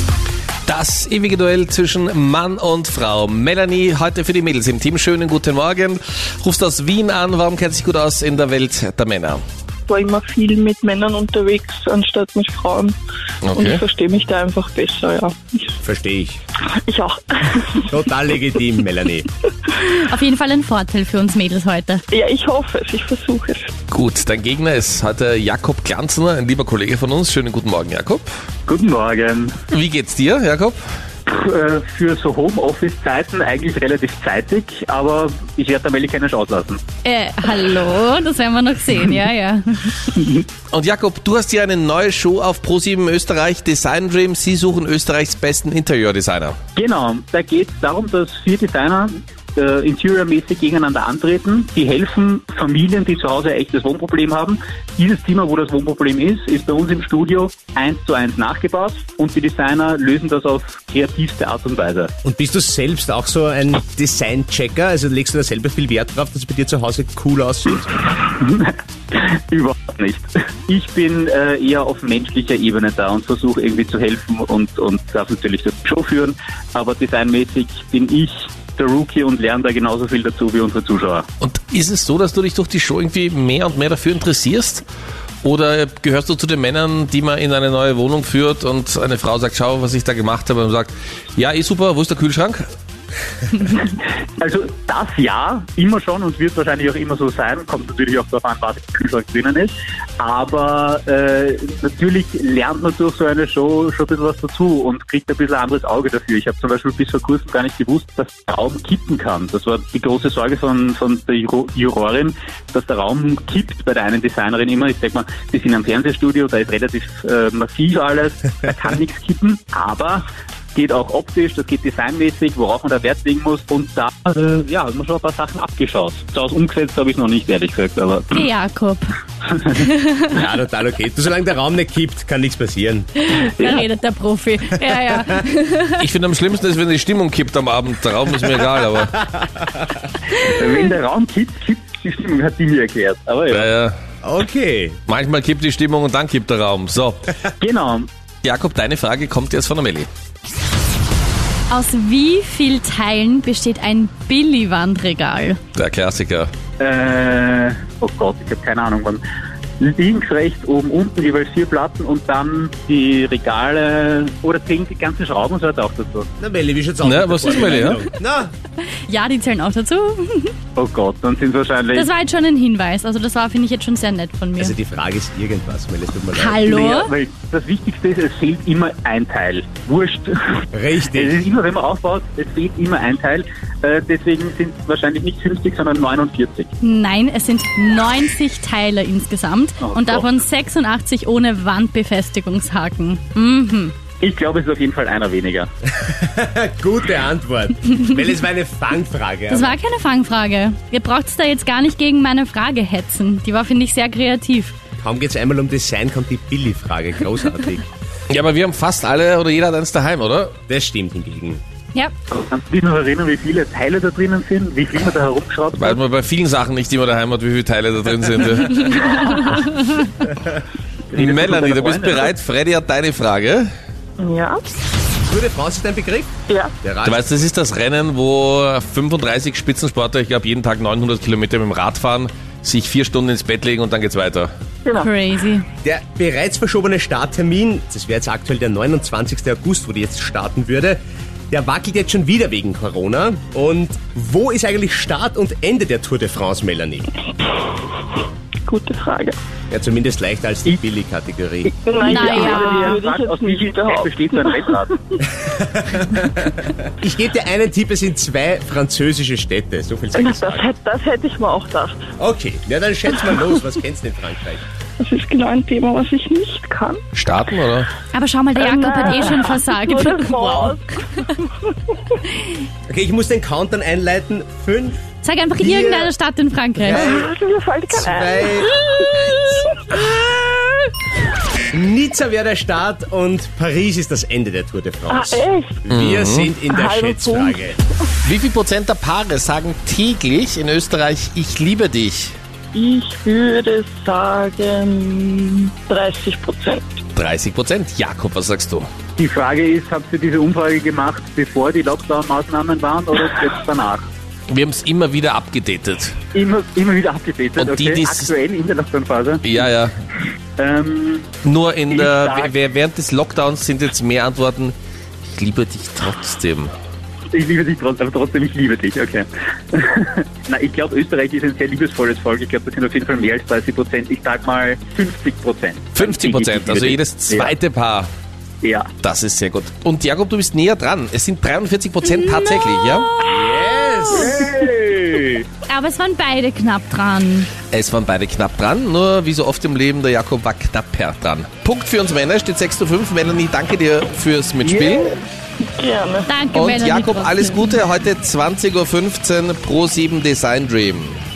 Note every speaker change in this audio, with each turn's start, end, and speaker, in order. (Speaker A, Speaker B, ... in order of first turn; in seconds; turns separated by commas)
Speaker A: 0.7-9.4, Speaker B: 9.9-12.9, Speaker A: 13.4-13.8, Speaker B: 13.5-15.7, Speaker C: 15.8-16.4, Speaker B: 16.6-17.9, Speaker C: 17.9-19.3, Speaker D: 19.7-22.0, Speaker B: 22.1-23.7, Speaker A: 23.9-28.3, Speaker E: 28.7-29.6, Speaker A: 29.7-30.8, Speaker E: 31.2-36.8, Speaker D: 37.0-40.0, Speaker E: 40.1-40.4, Speaker A: 40.7-46.6, Speaker E: 46.8-62.1, Speaker C: 62.2-67.9, Speaker E: 68.1-81.3, Speaker A: 81.4-84.8, Speaker A: 85.4-92.6, Speaker E: 93.5-120.2, Speaker E: 120.7-128.5, Speaker D: 128.3-129.1, Speaker D: 129.7-130.2, Speaker C: 130.3-133.1, Speaker D: 133.2-136.0, Speaker A: 136.0-139.2, Speaker C: 139.0-140.0, Speaker E: 140.3-143.7, Speaker A: 143.5-143.9, Speaker C: 144.2-145.0, Speaker A: 145.1-147.3, Speaker E: 147.6-148.1, Speaker A: 148.4-150.1, Speaker D: 151.7-155.6, Speaker A: 155.7-156.5, Speaker E: 156.8-159.2, Speaker E: 159.8-166.3, Speaker C: 166.4-168.5, Speaker A: 167.0-168.0, Speaker D: 169.1-170.5, Speaker E: 170.8-172.1, Speaker D: 171.9-174.7, Speaker C: 174.6-176.8, Speaker D: 176.3-177.1, Speaker E: 176.7-186.7, Speaker C: 180.7-181.3, Speaker D: 186.8-193.9, Speaker E: 189.8-190.2, Speaker E: 194.2-195.7, Speaker C: 195.9-199.8, Speaker D: 199.5-204.7, Speaker C: 205.0-207.9, Speaker A: 208.3-210.5, Speaker C: 210.7-211.6, Speaker E: 212.3-216.0, Speaker A: 215.7-219.6, Speaker E: 221.1-222.3, Speaker A: 221.1-223.7, Speaker B: 224.2-224.6, Speaker C: 225.2-227.2, Speaker B: 226.5-226.7, Speaker A: 227.0-234.5, Speaker B: 234.8-235.1, Speaker D: 235.0-235.7, Speaker C: 235.8-241.0, Speaker C: 241.5-247.1, Speaker B: 248.7-249.4, Speaker C: 249.7-251.7, Speaker E: 251.7-254.9, Speaker B: 251.8-255.2, Speaker D: 252.0-253.0, Speaker C: 255.4-260.7, Speaker B: 260.1-262.1, Speaker C: 262.2-264.6, Speaker B: 265.0-267.7, Speaker A: 267.1-267.9, Speaker D: 268.1-271.2, Speaker B: 268.6-272.1, Speaker C: 272.9-275.0, Speaker D: 275.2-277.0, Speaker C: 275.6-276.1, Speaker C: 276.8-277.3, Speaker B: 276.8-279.9, Speaker C: 277.9-280.2, Speaker C: 281.7-287.8, Speaker B: 285.1-285.9, Speaker A: 285.9-286.5, Speaker B: 286.7-287.6, Speaker A: 288.2-292.3, Speaker B: 292.7-297.0, Speaker A: 297.1-298.9, Speaker E: 299.2-304.0, Speaker A: 304.5-306.1, Speaker E: 306.3-309.4, Speaker A: 307.6-308.3, Speaker A: 309.4-309.9, Speaker E: 310.6-311.3, Speaker A: 311.4-314.7, Speaker E: 311.9-312.5, Speaker A: 315.3-316.7, Speaker E: 317.3-327.5, Speaker A: 325.9-328.1, Speaker E: 328.6-328.9, Speaker A: 329.0-333.2, Speaker C: 333.2-335.2, Speaker E: 334.1-334.8, Speaker D: 335.6-337.5, Speaker A: 337.7-345.2, Speaker E: 344.6-345.1, Speaker B: 345.6-346.4, Speaker D: 346.2-347.7, Speaker A: 346.5-351.2